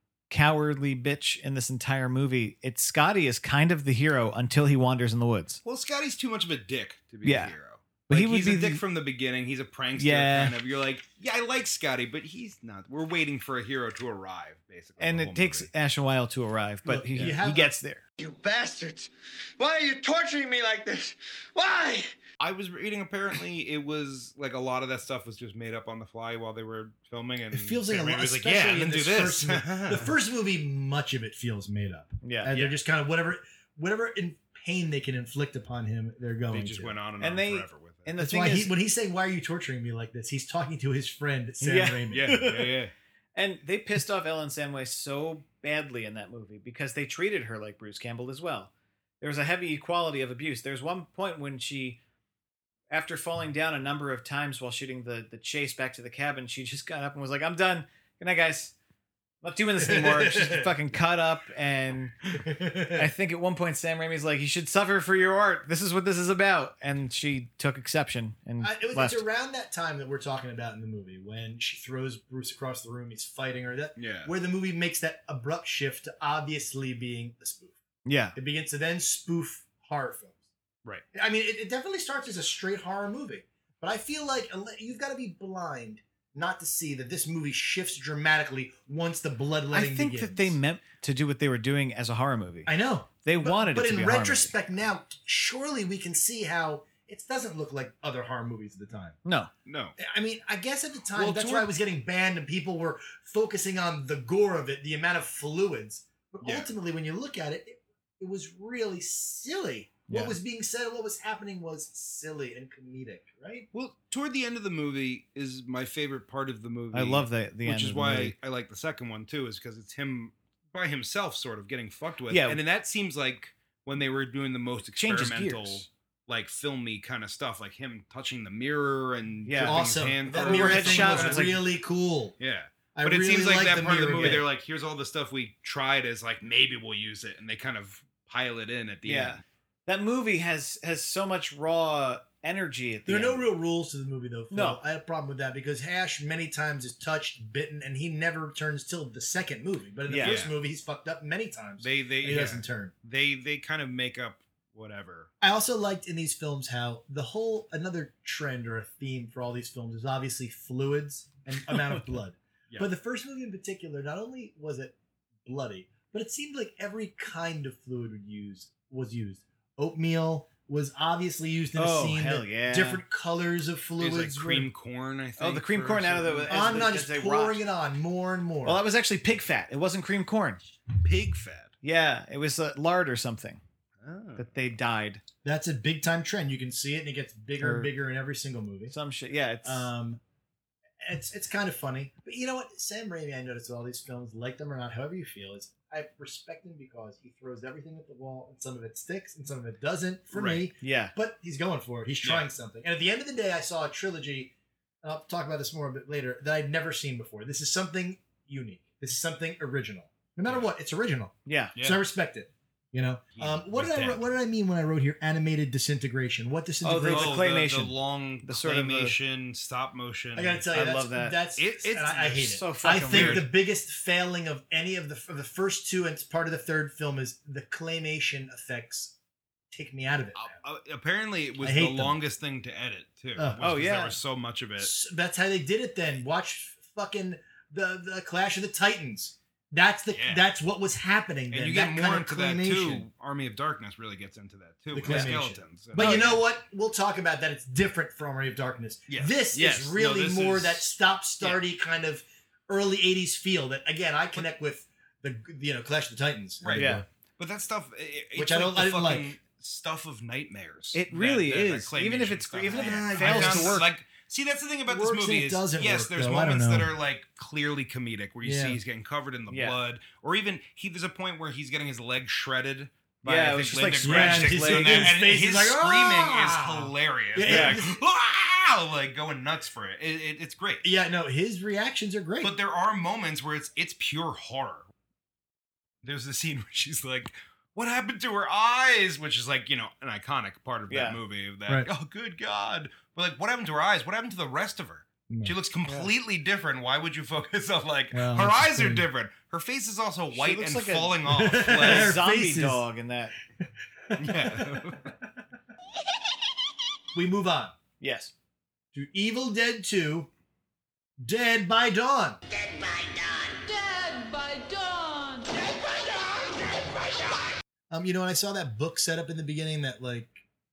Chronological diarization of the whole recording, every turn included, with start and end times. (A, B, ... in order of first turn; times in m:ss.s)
0:00.3-0:05.6 A
0:05.6-0:15.7 B
0:07.2-0:07.5 A
0:08.1-0:08.8 A
0:10.0-0:10.5 A
0:15.0-0:18.0 A
0:16.8-0:17.7 C
0:18.2-0:19.1 D
0:19.6-0:22.0 D
0:22.4-0:30.1 B
0:27.5-0:37.0 C
0:32.2-0:32.5 A
0:36.5-0:38.1 B
0:37.2-0:38.7 A
0:38.2-0:42.3 C
0:41.6-0:42.7 A
0:42.1-0:42.9 B
0:43.3-0:52.0 A
0:52.9-0:58.7 A
0:59.4-1:02.1 A
0:59.8-1:00.7 C
1:02.4-1:03.1 C
1:02.9-1:09.2 A
1:08.6-1:17.8 C
1:14.0-1:14.3 B
1:18.0-1:18.4 A
1:18.4-1:20.5 C
1:21.1-1:30.6 C
1:29.7-1:34.5 A
1:32.6-1:39.2 C
1:39.2-1:39.5 A
1:39.6-1:40.0 B
1:40.0-1:53.7 C
1:41.1-1:41.6 A
1:46.4-1:46.7 B
1:53.7-2:11.5 B
1:56.9-1:58.3 A
2:02.3-2:02.6 A
2:05.0-2:05.9 A
2:09.4-2:11.6 A
2:09.6-2:12.3 C
2:12.4-2:19.4 B
2:12.9-2:14.4 C
2:14.2-2:14.4 A
2:19.0-2:23.4 A
2:23.0-2:32.9 C
2:24.5-2:24.8 A
2:30.1-2:30.4 A
2:30.2-2:30.5 B
2:31.8-2:35.3 B
2:35.4-2:54.7 C
2:41.7-2:42.1 A
2:51.8-2:53.0 A
2:54.0-2:56.9 B
2:55.4-2:57.6 A
2:56.5-2:58.8 C
2:58.6-3:00.7 A
3:01.0-3:01.7 B
3:01.8-3:03.6 A
3:04.0-3:04.5 B
3:04.4-3:05.2 A
3:05.4-3:08.9 C
3:07.6-3:07.9 A
3:08.9-3:09.9 A
3:09.6-3:10.2 C
3:11.0-3:37.4 C
3:20.3-3:20.7 B
3:20.8-3:21.1 A
3:31.4-3:31.7 A
3:33.3-3:34.2 B
3:36.8-3:39.2 A
3:37.0-3:40.6 B
3:40.3-3:49.1 C
3:40.7-3:41.4 A
3:41.6-3:43.4 B
3:42.4-3:43.4 A
3:49.7-3:50.5 C
3:50.4-3:54.9 B
3:51.6-3:52.2 C
3:53.6-3:54.2 A
3:54.8-4:03.0 C
4:00.1-4:00.4 B
4:01.5-4:06.4 B
4:04.9-4:17.0 C
4:05.0-4:05.4 A
4:05.9-4:06.4 A
4:09.1-4:10.9 B
4:16.6-4:40.8 B
4:16.7-4:17.0 A
4:18.3-4:19.3 C
4:20.9-4:23.9 A
4:22.7-4:23.8 C
4:24.9-4:26.9 C
4:28.4-4:28.8 C
4:29.5-4:29.8 A
4:33.2-4:35.2 A
4:33.8-4:37.9 C
4:37.4-4:37.8 A
4:40.8-4:42.5 C
4:42.4-4:44.9 B
4:46.0-5:02.2 B
4:50.9-4:51.2 A
4:55.3-4:55.5 C
4:58.1-4:59.0 C
5:00.3-5:03.4 A
5:01.2-5:02.8 C
5:03.6-5:04.8 C
5:04.2-5:05.1 B
5:07.1-5:07.7 C
5:08.0-5:08.3 A
5:08.9-5:10.3 C
5:11.2-5:12.4 C
5:13.6-5:15.7 E
5:17.9-5:20.4 C